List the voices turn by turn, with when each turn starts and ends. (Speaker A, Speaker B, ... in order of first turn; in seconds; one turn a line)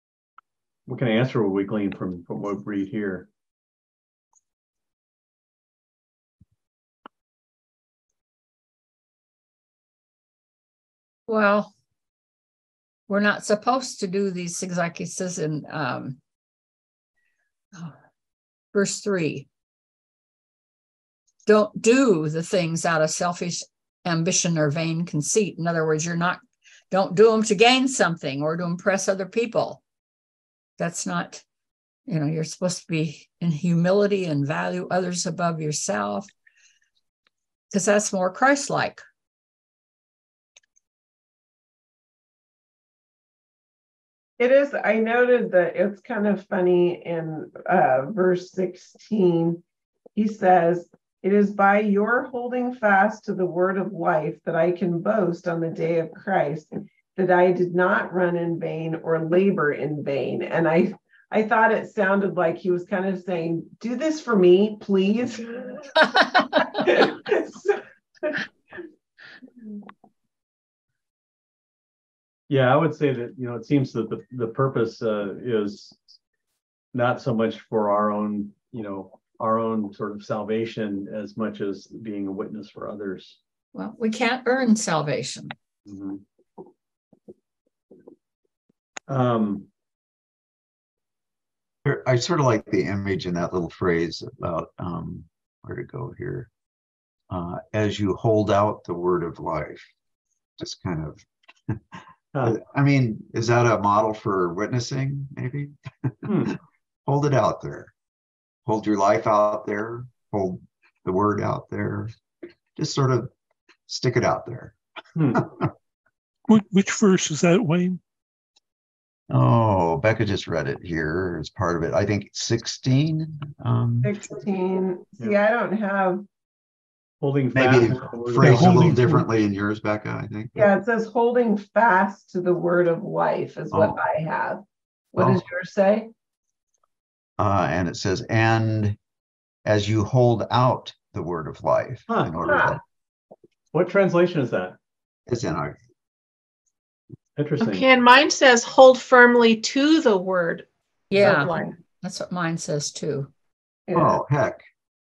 Speaker A: 0.9-3.3
Speaker B: 11.3-11.7
Speaker B: 13.1-16.2
Speaker B: 18.7-19.5
Speaker B: 21.4-29.8
Speaker B: 30.8-31.4
Speaker B: 32.1-36.3
Speaker B: 37.7-39.0
Speaker C: 44.4-49.6
Speaker C: 50.1-68.5
Speaker A: 72.5-76.0
Speaker A: 76.9-83.4
Speaker B: 83.7-85.5
Speaker A: 85.8-86.2
Speaker A: 89.1-89.7
Speaker D: 91.8-96.5
Speaker D: 97.3-99.9
Speaker D: 100.6-101.8
Speaker D: 102.4-106.5
Speaker A: 106.2-106.5
Speaker D: 107.0-107.9
Speaker D: 108.7-112.1
Speaker D: 112.8-113.3
Speaker D: 113.9-114.8
Speaker A: 115.2-115.5
Speaker D: 115.3-115.7
Speaker E: 116.5-118.0
Speaker D: 119.3-124.2
Speaker C: 124.0-126.2
Speaker A: 127.2-128.9
Speaker D: 127.5-130.7
Speaker E: 128.4-129.2
Speaker C: 130.6-134.6
Speaker D: 133.7-134.0
Speaker C: 135.1-136.1
Speaker D: 135.2-135.4
Speaker D: 137.4-139.0
Speaker D: 139.6-142.8
Speaker A: 142.1-142.7
Speaker C: 142.4-142.7
Speaker A: 143.7-144.8
Speaker D: 145.3-145.8
Speaker A: 147.4-147.8
Speaker F: 147.6-151.6
Speaker B: 151.1-153.3
Speaker C: 151.2-151.7
Speaker C: 153.9-154.2
Speaker D: 153.9-154.6